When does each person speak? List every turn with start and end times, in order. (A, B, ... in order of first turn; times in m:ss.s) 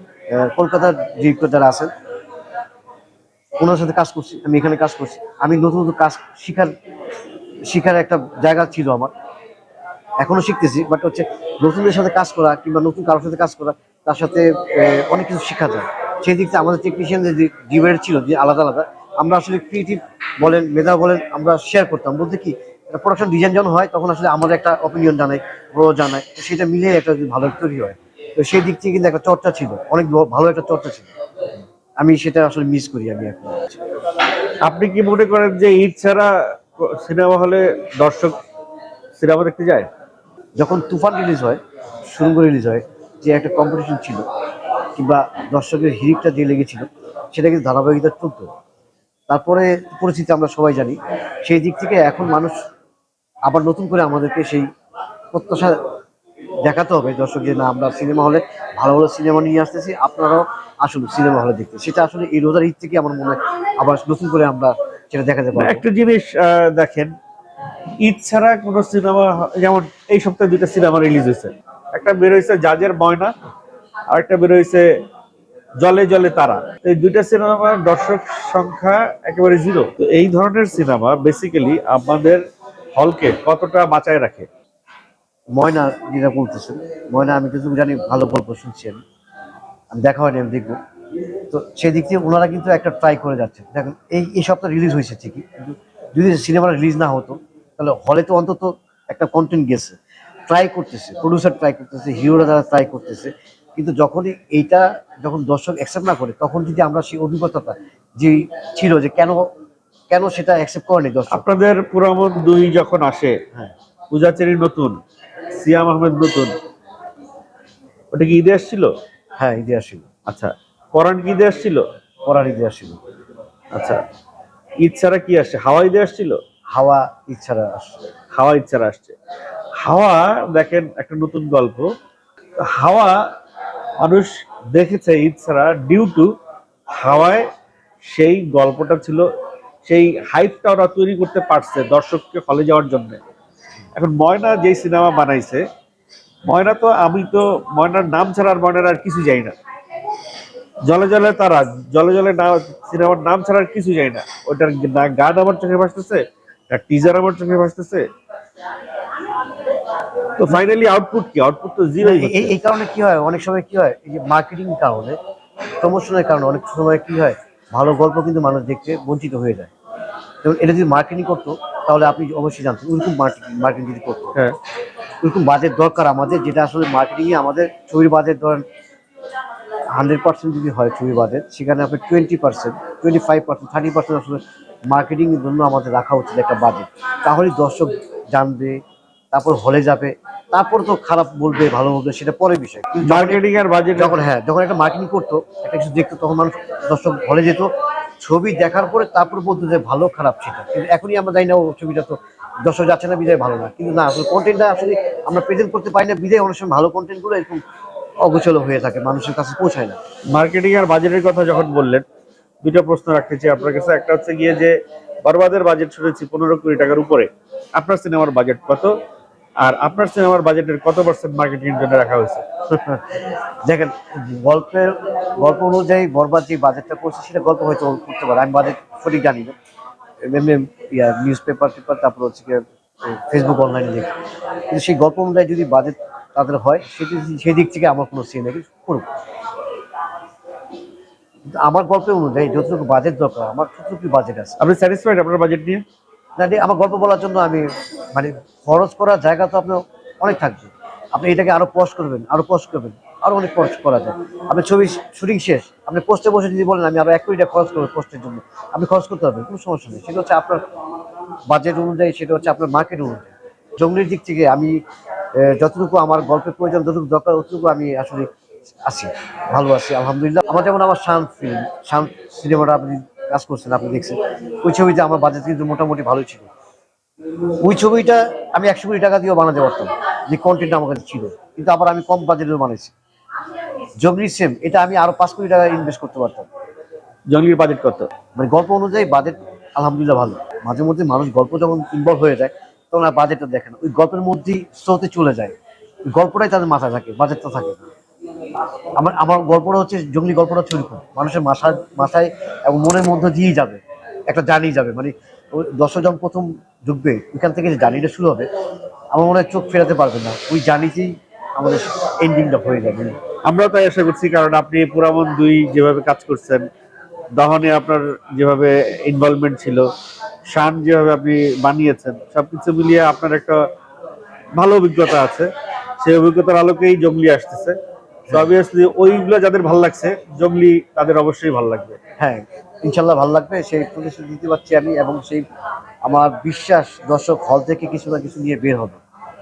0:00.3-0:01.9 A
0:03.6-0:06.7 A
0:07.7-0:09.1 A
0:10.2-0:31.1 A
0:32.0-0:33.8 A
0:34.6-0:38.4 B
0:39.2-0:39.9 B
0:40.6-0:44.2 A
0:45.0-0:48.5 A
0:49.3-0:52.6 A
0:53.5-0:54.7 A
0:55.3-0:55.8 A
0:56.6-1:05.8 A
1:05.6-1:07.1 B
1:08.0-1:13.3 B
1:14.1-1:14.9 B
1:15.8-1:22.4 B
1:23.0-1:24.5 B
1:25.5-1:29.0 A
1:29.9-1:30.8 A
1:31.5-1:49.5 A
1:50.1-1:51.4 A
1:51.3-1:53.4 B
1:54.1-1:55.0 B
1:55.5-1:56.5 B
1:58.1-1:58.9 B
1:59.4-2:00.1 A
2:00.3-2:01.8 B
2:02.2-2:03.0 A
2:03.7-2:04.0 B
2:04.8-2:06.4 B
2:06.7-2:08.0 A
2:08.3-2:09.2 B
2:09.8-2:11.9 B
2:12.6-2:13.2 B
2:14.0-2:16.3 B
2:16.9-2:17.4 B
2:18.0-2:19.2 B
2:19.8-2:23.2 B
2:23.9-2:25.6 B
2:26.5-2:29.5 B
2:30.9-2:38.1 B
2:40.4-2:42.5 B
2:42.0-2:45.2 A
2:45.8-2:49.7 A
2:50.4-2:54.4 A
2:55.2-2:58.6 A
2:59.9-3:08.8 A
3:09.3-3:13.4 A
3:13.0-3:14.2 B
3:14.0-3:27.6 A
3:28.2-3:30.0 A
3:30.3-3:32.0 B
3:32.6-3:38.9 B
3:39.6-3:42.4 B
3:42.7-3:49.6 A
3:50.2-3:54.1 A
3:54.7-3:59.1 A
4:01.6-4:04.6 A
4:04.6-4:05.8 B
4:06.4-4:20.6 A
4:21.5-4:24.8 A
4:25.3-4:28.3 A
4:28.9-4:36.5 A
4:37.6-4:42.9 A
4:44.0-4:46.5 A
4:47.3-4:48.1 B
4:48.3-4:55.6 A
4:56.1-4:57.8 A
4:59.0-5:08.5 A
5:09.1-5:13.2 A
5:13.4-5:16.7 B
5:17.4-5:19.9 B
5:20.5-5:23.6 B
5:24.6-5:27.8 B
5:28.3-5:32.0 B
5:32.2-5:35.4 A
5:36.0-5:39.0 A